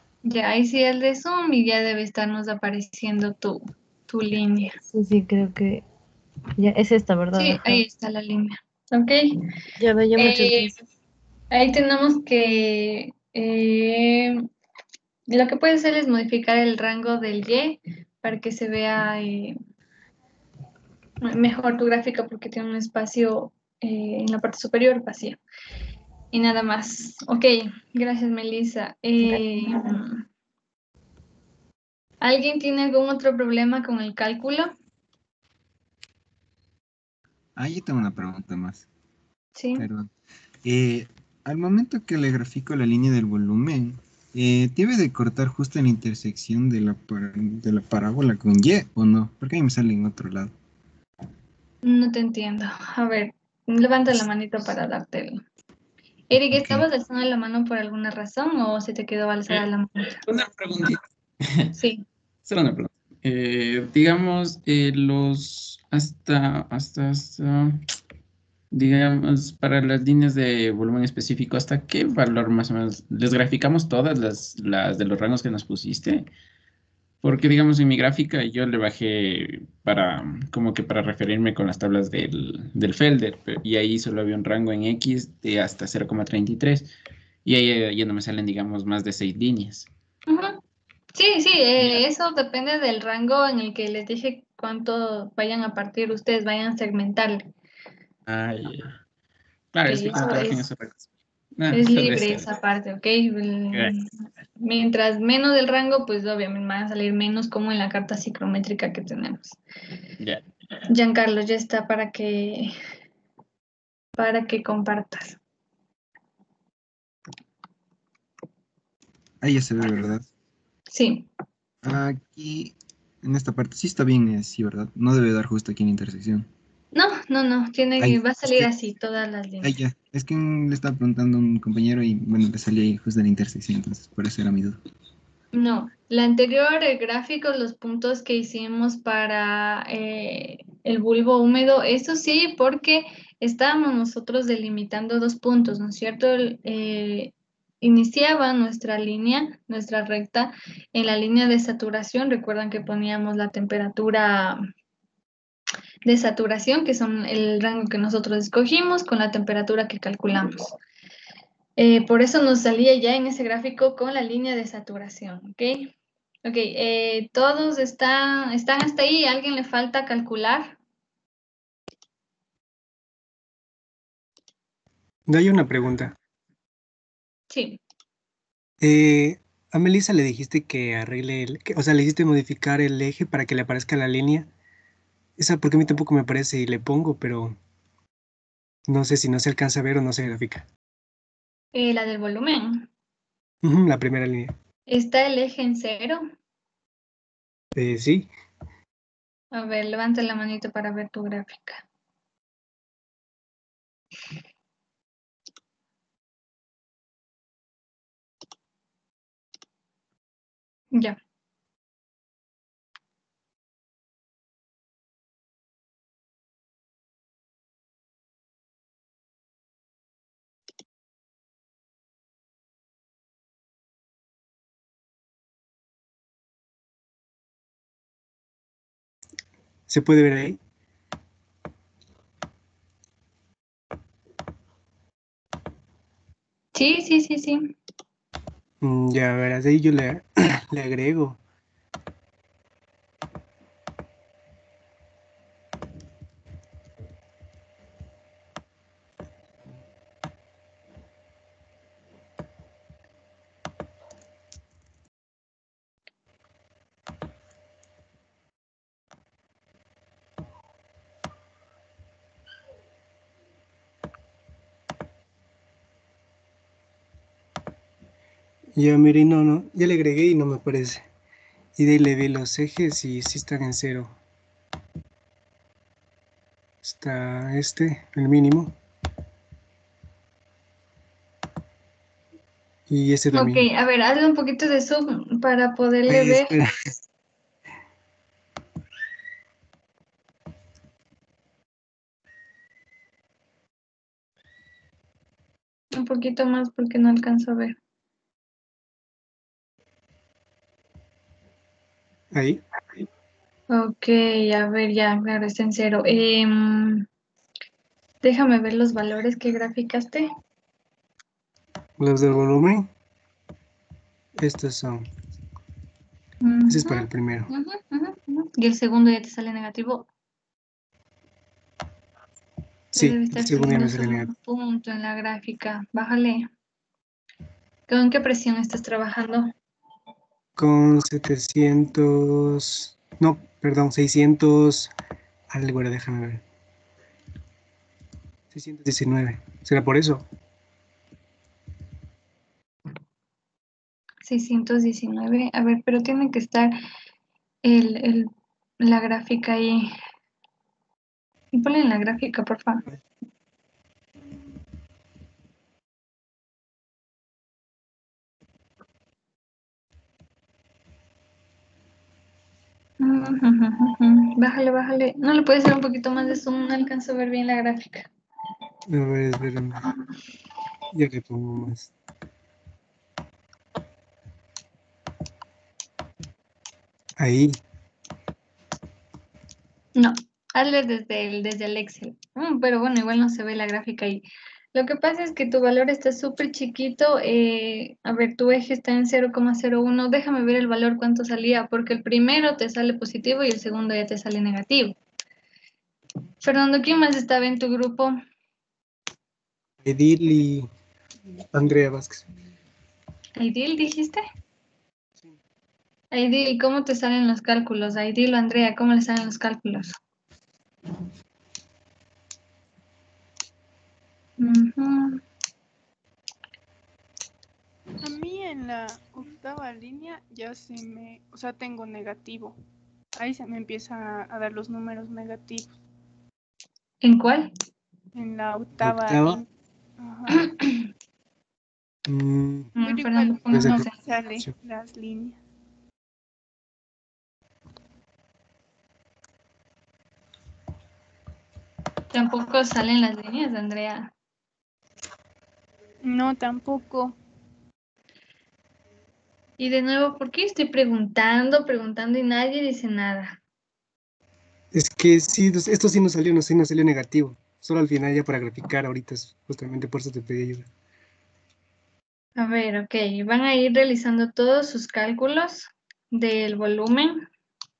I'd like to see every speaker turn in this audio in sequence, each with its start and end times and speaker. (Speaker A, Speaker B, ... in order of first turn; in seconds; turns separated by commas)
Speaker A: 0.2-4.8, Speaker B: 4.9-5.8, Speaker B: 6.6-7.8, Speaker A: 7.3-9.4, Speaker B: 9.8-10.8, Speaker A: 10.2-10.7, Speaker A: 11.5-14.4, Speaker A: 15.3-19.6, Speaker A: 21.2-25.4, Speaker A: 26.3-30.2, Speaker B: 29.2-29.9, Speaker A: 32.2-34.7, Speaker C: 37.6-38.9, Speaker A: 39.6-39.9, Speaker C: 39.8-40.1, Speaker C: 40.6-50.5, Speaker A: 51.8-55.4, Speaker A: 56.3-60.2, Speaker D: 60.3-61.8, Speaker A: 61.8-62.0, Speaker D: 62.5-67.8, Speaker D: 68.7-76.3, Speaker D: 77.2-86.9, Speaker D: 87.5-89.9, Speaker A: 90.3-90.6, Speaker A: 91.2-97.5, Speaker D: 91.8-92.0, Speaker D: 98.3-99.0, Speaker D: 99.7-101.0, Speaker A: 99.9-100.6, Speaker D: 101.6-102.5, Speaker A: 101.7-104.1, Speaker A: 104.6-109.6, Speaker A: 110.9-112.7, Speaker A: 114.2-115.4, Speaker C: 119.4-120.3, Speaker A: 120.9-121.3, Speaker C: 121.8-126.5, Speaker A: 126.9-129.8, Speaker C: 128.0-128.7, Speaker C: 129.6-134.8, Speaker A: 135.5-154.6, Speaker A: 156.1-160.8, Speaker A: 161.8-170.8, Speaker E: 175.3-176.2, Speaker A: 177.5-177.8, Speaker E: 178.8-184.5, Speaker E: 185.4-187.6, Speaker E: 188.9-190.7, Speaker A: 191.7-192.9, Speaker E: 193.6-194.5, Speaker A: 194.9-196.2, Speaker E: 197.8-198.3, Speaker A: 199.5-201.8, Speaker E: 229.9-230.6, Speaker A: 236.8-237.7, Speaker E: 238.8-241.4, Speaker E: 268.8-271.1, Speaker E: 271.8-274.1, Speaker E: 276.8-278.7, Speaker E: 282.9-283.7, Speaker A: 283.3-286.5, Speaker E: 286.1-286.9, Speaker A: 295.9-297.8, Speaker E: 302.3-302.6, Speaker A: 303.7-307.1, Speaker A: 308.2-310.3, Speaker E: 312.0-312.9, Speaker E: 314.4-315.1, Speaker A: 316.4-320.1, Speaker E: 316.7-317.5, Speaker A: 322.9-326.5, Speaker E: 322.9-324.3, Speaker A: 327.9-329.5, Speaker E: 330.6-334.9, Speaker E: 335.5-336.4, Speaker E: 338.5-340.2, Speaker A: 344.2-346.8, Speaker A: 347.6-349.9, Speaker A: 351.5-352.9, Speaker A: 363.0-368.1, Speaker E: 368.9-369.8, Speaker E: 370.9-371.9, Speaker E: 377.2-377.6, Speaker A: 380.0-395.0, Speaker A: 396.4-398.2, Speaker E: 399.8-400.7, Speaker E: 401.5-402.3, Speaker A: 403.4-404.2, Speaker A: 406.1-410.0, Speaker A: 414.4-415.2, Speaker F: 418.0-422.6, Speaker F: 423.2-425.7, Speaker A: 427.0-427.5, Speaker F: 428.1-429.4, Speaker E: 428.8-429.4, Speaker F: 430.0-430.5, Speaker E: 432.1-432.8, Speaker A: 432.8-434.0, Speaker F: 432.8-435.4, Speaker E: 433.5-434.5, Speaker A: 442.1-444.1, Speaker F: 446.0-447.2, Speaker A: 449.6-453.4, Speaker E: 454.7-460.7, Speaker A: 462.4-467.3